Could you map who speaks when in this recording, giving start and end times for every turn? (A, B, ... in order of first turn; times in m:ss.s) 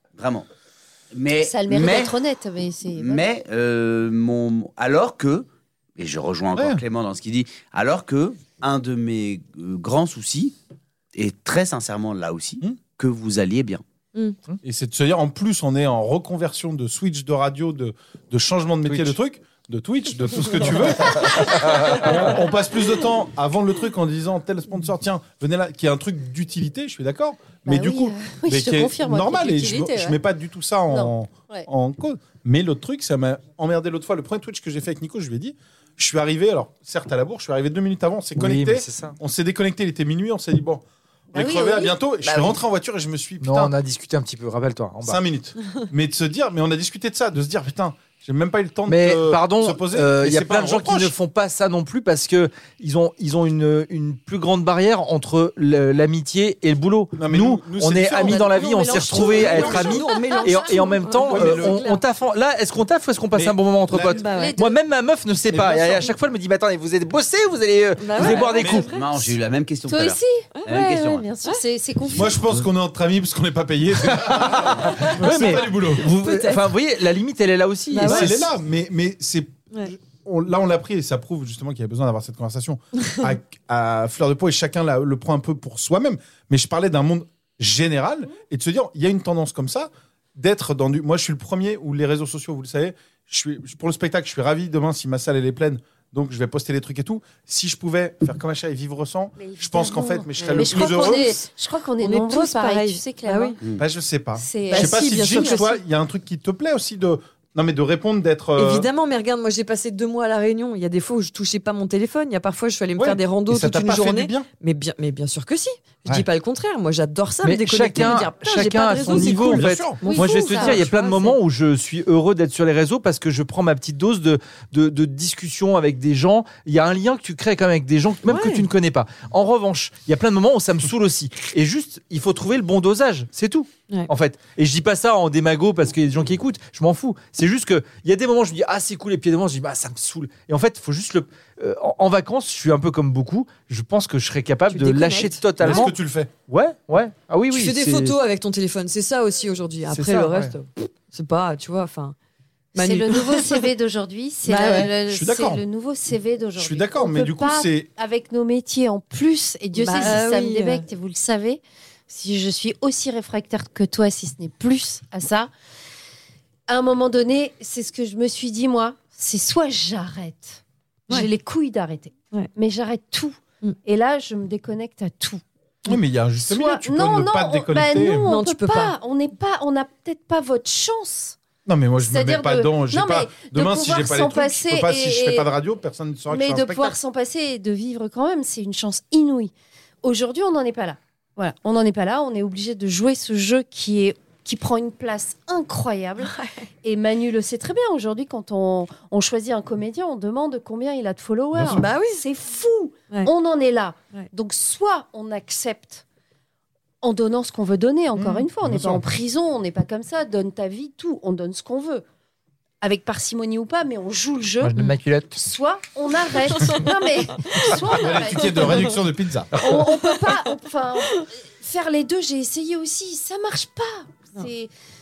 0:00.2-0:00.5 A
0:01.1-0:02.1 A
0:01.4-0:03.3 B
0:02.9-0:10.6 A
0:06.6-0:06.8 C
0:11.1-0:13.8 A
0:14.6-0:43.7 C
0:18.9-0:19.1 D
0:21.1-0:21.9 D
0:27.7-0:30.2 B
0:30.9-0:31.7 B
0:38.4-0:39.2 D
0:41.3-0:42.5 B
0:43.4-0:45.2 D
0:45.0-0:51.1 C
0:48.9-1:08.9 D
0:57.2-0:58.6 C
0:58.2-1:01.1 B
0:59.1-1:02.0 E
0:59.1-1:00.0 C
1:01.3-1:01.8 C
1:03.3-1:04.2 C
1:04.1-1:04.6 E
1:04.2-1:04.8 B
1:05.5-1:06.1 C
1:08.0-1:09.0 E
1:08.4-1:11.3 A
1:08.5-1:08.8 C
1:09.9-1:12.4 B
1:12.1-1:12.4 A
1:12.1-1:16.1 C
1:14.2-1:18.4 D
1:16.2-1:16.7 E
1:17.9-1:18.4 E
1:18.0-1:41.3 C
1:39.4-1:43.6 B
1:40.5-1:41.4 E
1:42.0-1:43.6 E
1:43.8-1:48.9 C
1:44.4-1:45.6 B
1:44.7-1:45.8 E
1:48.6-2:01.4 E
1:53.0-1:54.5 C
1:57.4-2:25.9 D
1:59.0-2:00.0 C
2:00.0-2:00.8 B
2:08.2-2:08.6 E
2:24.7-2:25.9 E
2:25.6-2:26.3 C
2:26.5-2:28.2 D
2:27.5-2:32.1 E
2:29.9-2:30.5 D
2:32.8-2:33.6 E
2:32.8-2:45.5 B
2:34.5-2:34.9 E
2:35.1-2:35.6 C
2:36.6-2:37.9 C
2:39.8-2:40.8 E
2:46.7-2:55.4 B
2:55.9-2:58.3 C
2:56.4-3:01.4 B
2:58.3-2:58.9 E
3:01.6-3:07.0 C
3:02.0-3:05.5 B
3:06.3-3:09.5 B
3:10.0-3:26.0 B
3:16.2-3:16.6 E
3:21.5-3:21.8 C
3:21.7-3:22.2 E
3:27.0-3:32.0 B
3:28.1-3:29.0 C
3:32.8-3:39.0 B
3:34.6-3:35.4 D
3:37.8-3:39.5 C
3:39.6-3:44.7 B